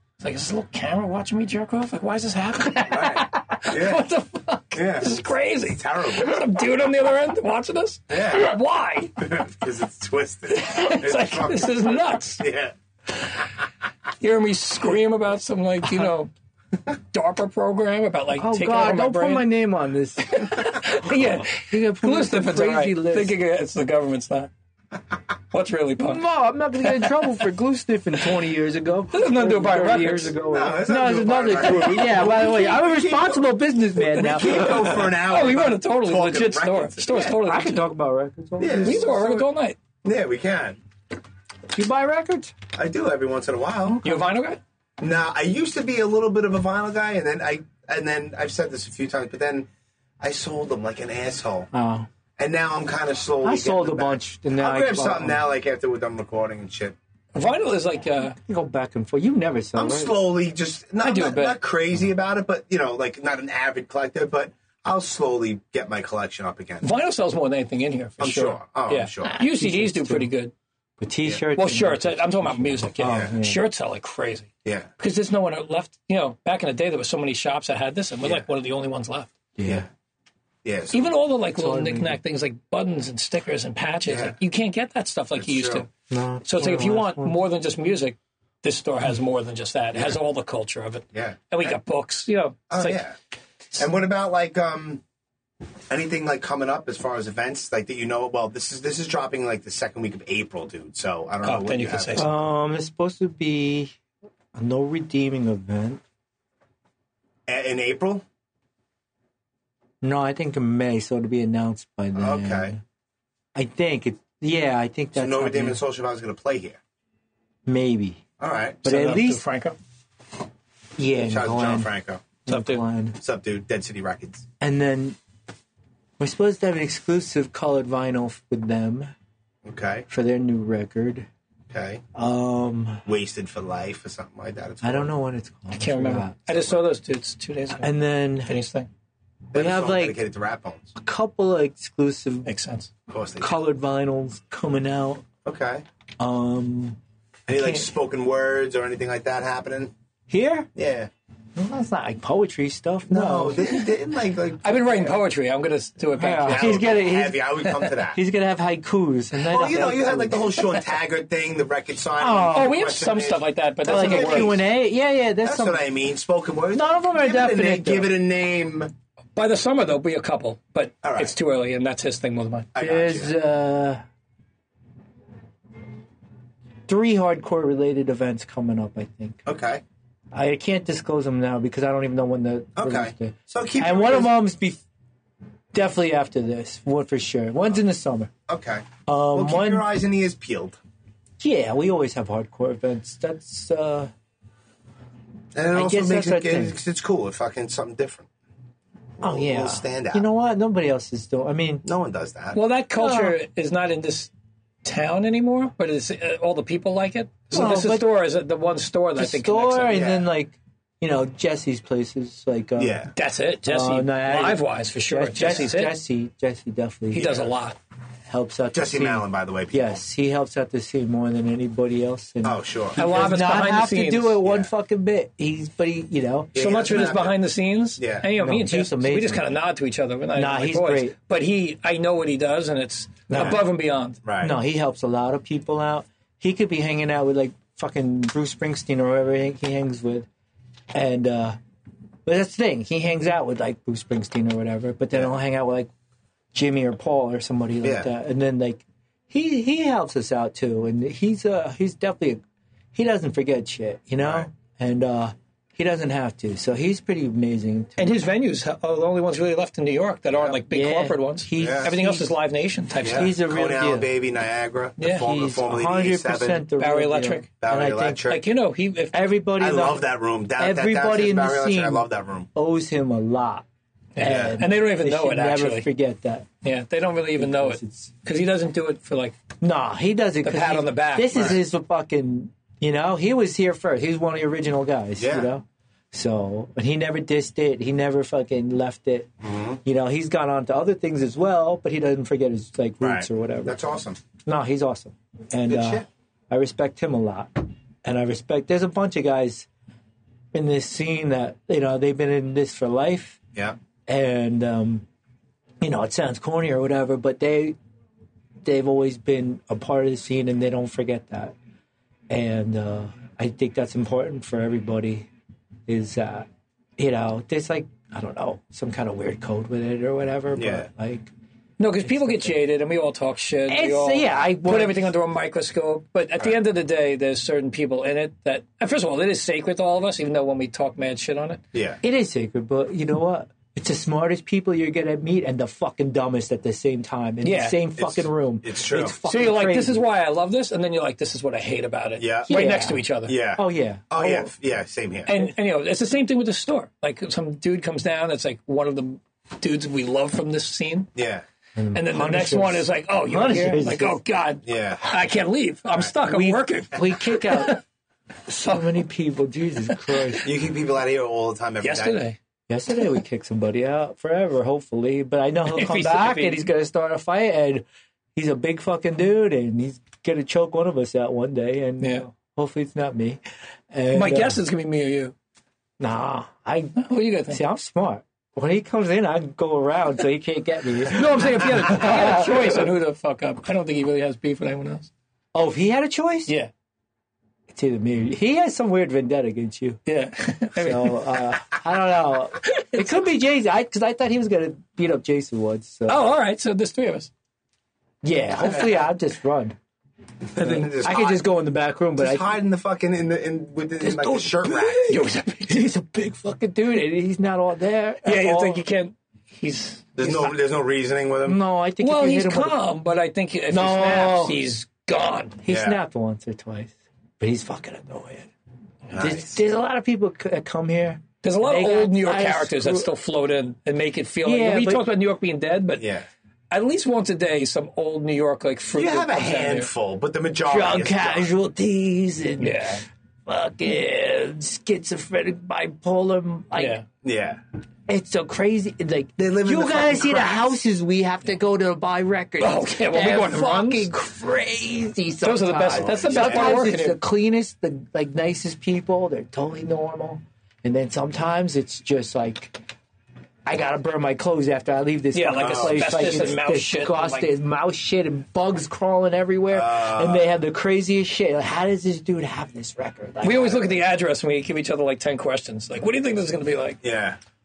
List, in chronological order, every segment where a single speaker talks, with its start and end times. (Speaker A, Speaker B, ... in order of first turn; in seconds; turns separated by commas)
Speaker A: 0.2-9.2, Speaker B: 2.9-4.0, Speaker B: 4.7-6.4, Speaker B: 8.1-8.6, Speaker B: 9.2-12.7, Speaker A: 10.5-12.4, Speaker A: 14.2-16.3, Speaker A: 16.9-19.5, Speaker C: 18.4-23.4, Speaker A: 20.3-24.5, Speaker A: 25.5-26.3, Speaker C: 26.0-34.9, Speaker A: 26.8-27.4, Speaker A: 29.1-30.3, Speaker B: 30.4-37.4, Speaker A: 34.3-37.8, Speaker C: 37.4-39.5, Speaker B: 38.6-39.1, Speaker A: 38.8-39.8, Speaker B: 40.0-40.8, Speaker C: 41.7-42.5, Speaker B: 42.7-44.0, Speaker A: 44.0-44.6, Speaker B: 45.0-49.7, Speaker B: 50.2-51.7, Speaker C: 51.7-52.1, Speaker B: 52.4-57.0, Speaker C: 53.4-55.4, Speaker A: 57.3-58.4, Speaker C: 58.4-60.2, Speaker B: 59.7-66.9, Speaker A: 61.0-61.6, Speaker A: 66.8-70.5, Speaker B: 68.2-69.4, Speaker C: 69.2-70.3, Speaker C: 71.0-73.6, Speaker A: 71.5-79.3, Speaker B: 73.0-73.3, Speaker B: 74.6-74.9, Speaker C: 79.6-79.9, Speaker B: 80.6-81.1, Speaker A: 80.9-85.9, Speaker C: 81.5-82.2, Speaker B: 84.1-84.3, Speaker B: 85.4-85.9, Speaker C: 86.1-87.4, Speaker A: 86.5-93.0, Speaker B: 91.1-91.8, Speaker B: 92.7-93.2, Speaker B: 93.7-95.0, Speaker B: 95.9-102.3, Speaker A: 101.4-102.3, Speaker C: 102.2-104.0, Speaker C: 104.5-106.0, Speaker B: 107.5-108.2, Speaker C: 110.0-112.8, Speaker B: 112.1-112.8, Speaker C: 113.5-115.8, Speaker B: 115.1-116.8, Speaker C: 117.7-118.2, Speaker B: 118.4-118.8, Speaker C: 118.8-119.4, Speaker A: 118.8-119.8, Speaker C: 121.0-121.9, Speaker B: 121.2-122.2, Speaker C: 122.5-123.2, Speaker A: 122.5-122.8, Speaker B: 123.2-124.5, Speaker C: 124.6-125.2, Speaker C: 126.2-129.1, Speaker B: 129.6-130.1, Speaker C: 130.1-131.3, Speaker B: 131.7-132.0, Speaker C: 132.1-133.1, Speaker B: 133.1-135.1, Speaker C: 134.8-136.4, Speaker A: 135.7-138.9, Speaker B: 136.5-136.8, Speaker C: 137.8-138.5, Speaker B: 139.5-140.9, Speaker C: 139.5-140.2, Speaker C: 140.9-142.5, Speaker A: 142.4-142.9, Speaker B: 143.1-143.6, Speaker C: 143.4-145.2, Speaker B: 145.4-145.8, Speaker C: 146.2-147.9, Speaker B: 147.5-149.9, Speaker C: 150.3-150.7, Speaker B: 150.7-151.1, Speaker C: 151.6-153.8, Speaker B: 153.1-155.2, Speaker A: 154.6-157.1, Speaker C: 156.2-157.6, Speaker B: 156.5-158.2, Speaker A: 157.6-157.9, Speaker C: 158.1-160.5, Speaker B: 159.4-164.7, Speaker C: 162.2-162.9, Speaker A: 162.5-164.6, Speaker C: 163.8-165.8, Speaker B: 165.4-168.9, Speaker C: 166.7-168.1, Speaker A: 169.3-172.7, Speaker B: 171.0-171.3, Speaker B: 172.7-173.4, Speaker C: 172.8-174.0, Speaker C: 176.9-179.4, Speaker B: 179.4-179.8, Speaker C: 180.3-184.8, Speaker B: 182.8-184.4, Speaker C: 185.7-188.3, Speaker B: 188.5-190.8, Speaker C: 189.1-189.9, Speaker C: 191.4-194.1, Speaker B: 195.6-198.3, Speaker C: 195.7-196.8, Speaker B: 199.2-200.3, Speaker C: 199.2-201.9, Speaker B: 201.8-202.6, Speaker A: 202.5-204.3, Speaker C: 202.9-203.4, Speaker A: 204.8-210.0, Speaker C: 207.5-208.1, Speaker C: 209.2-213.1, Speaker B: 209.9-210.3, Speaker B: 212.8-213.1, Speaker A: 213.1-216.0, Speaker C: 213.6-217.5, Speaker A: 217.1-217.8, Speaker C: 218.3-226.7, Speaker B: 218.7-220.0, Speaker B: 222.4-223.0, Speaker A: 223.0-224.4, Speaker B: 224.4-224.7, Speaker B: 226.5-227.4, Speaker A: 226.6-234.2, Speaker B: 228.0-228.2, Speaker C: 228.4-229.4, Speaker C: 230.4-231.1, Speaker C: 233.3-233.7, Speaker B: 234.2-234.6, Speaker C: 234.4-240.3, Speaker C: 240.9-241.6, Speaker C: 242.3-245.9, Speaker C: 246.5-252.4, Speaker B: 247.8-248.1, Speaker C: 252.9-258.2, Speaker B: 254.2-254.5, Speaker A: 258.0-263.3, Speaker B: 260.3-260.6, Speaker C: 260.7-262.3, Speaker B: 261.6-261.9, Speaker B: 263.0-266.7, Speaker C: 263.1-264.1, Speaker A: 265.0-265.3, Speaker C: 265.1-268.3, Speaker A: 266.8-267.5, Speaker B: 267.6-268.4, Speaker A: 268.3-269.3, Speaker C: 269.1-273.6, Speaker B: 269.6-272.5, Speaker A: 274.1-275.9, Speaker C: 274.2-276.5, Speaker B: 274.2-274.6, Speaker A: 276.6-279.4, Speaker C: 277.4-278.1, Speaker C: 279.6-289.3, Speaker A: 280.4-281.6, Speaker B: 281.3-281.6, Speaker B: 285.2-285.5, Speaker B: 289.4-289.8, Speaker C: 289.8-293.8, Speaker B: 293.0-294.2, Speaker C: 294.4-299.7, Speaker B: 295.7-296.1, Speaker C: 300.5-303.4, Speaker C: 304.1-305.1, Speaker C: 305.8-307.8, Speaker C: 308.6-311.6, Speaker C: 312.3-315.3, Speaker C: 315.9-316.5, Speaker C: 317.0-321.3, Speaker B: 320.6-320.9, Speaker A: 321.8-331.6, Speaker C: 322.0-322.6, Speaker C: 323.7-325.1, Speaker B: 331.7-332.0, Speaker C: 332.0-340.0, Speaker A: 337.4-337.8, Speaker B: 338.0-339.2, Speaker A: 339.2-343.4, Speaker B: 342.2-342.5, Speaker C: 342.5-343.1, Speaker B: 343.3-345.3, Speaker C: 343.6-344.5, Speaker A: 345.3-351.1, Speaker B: 351.1-351.4, Speaker C: 351.8-354.2, Speaker A: 351.9-357.8, Speaker B: 354.6-355.2, Speaker C: 356.2-357.8, Speaker C: 358.5-360.5, Speaker B: 360.4-362.2, Speaker A: 361.8-362.4, Speaker C: 362.7-367.8, Speaker A: 365.7-366.6, Speaker C: 368.4-373.4, Speaker C: 373.9-374.6, Speaker A: 374.1-375.3, Speaker C: 376.0-382.8, Speaker A: 377.0-377.6, Speaker A: 381.1-385.1, Speaker C: 385.5-386.5, Speaker C: 387.7-390.0, Speaker A: 390.1-391.4, Speaker C: 390.8-396.3, Speaker A: 392.6-393.2, Speaker A: 396.1-397.3, Speaker C: 398.2-399.8, Speaker B: 400.5-401.5, Speaker C: 400.6-402.6, Speaker B: 402.2-405.1, Speaker C: 404.0-408.8, Speaker A: 405.1-405.8, Speaker A: 408.2-410.5, Speaker B: 410.2-411.6, Speaker C: 411.4-412.8, Speaker A: 412.0-415.6, Speaker C: 413.7-414.6, Speaker C: 415.6-418.5, Speaker B: 415.7-416.0, Speaker B: 419.1-419.5, Speaker C: 419.2-423.1, Speaker A: 421.4-426.1, Speaker C: 424.4-425.1, Speaker B: 426.0-426.3, Speaker A: 426.7-429.9, Speaker B: 428.9-431.5, Speaker C: 430.7-432.9, Speaker A: 432.6-433.0, Speaker C: 433.5-437.0, Speaker A: 436.8-437.1, Speaker B: 437.2-437.6, Speaker C: 438.1-452.8, Speaker B: 439.4-440.8, Speaker A: 442.6-444.1, Speaker A: 445.4-447.2, Speaker B: 445.9-446.9, Speaker C: 453.7-464.0, Speaker A: 455.3-457.5, Speaker B: 455.6-456.6, Speaker B: 459.7-460.5, Speaker A: 463.4-467.0, Speaker B: 467.0-467.4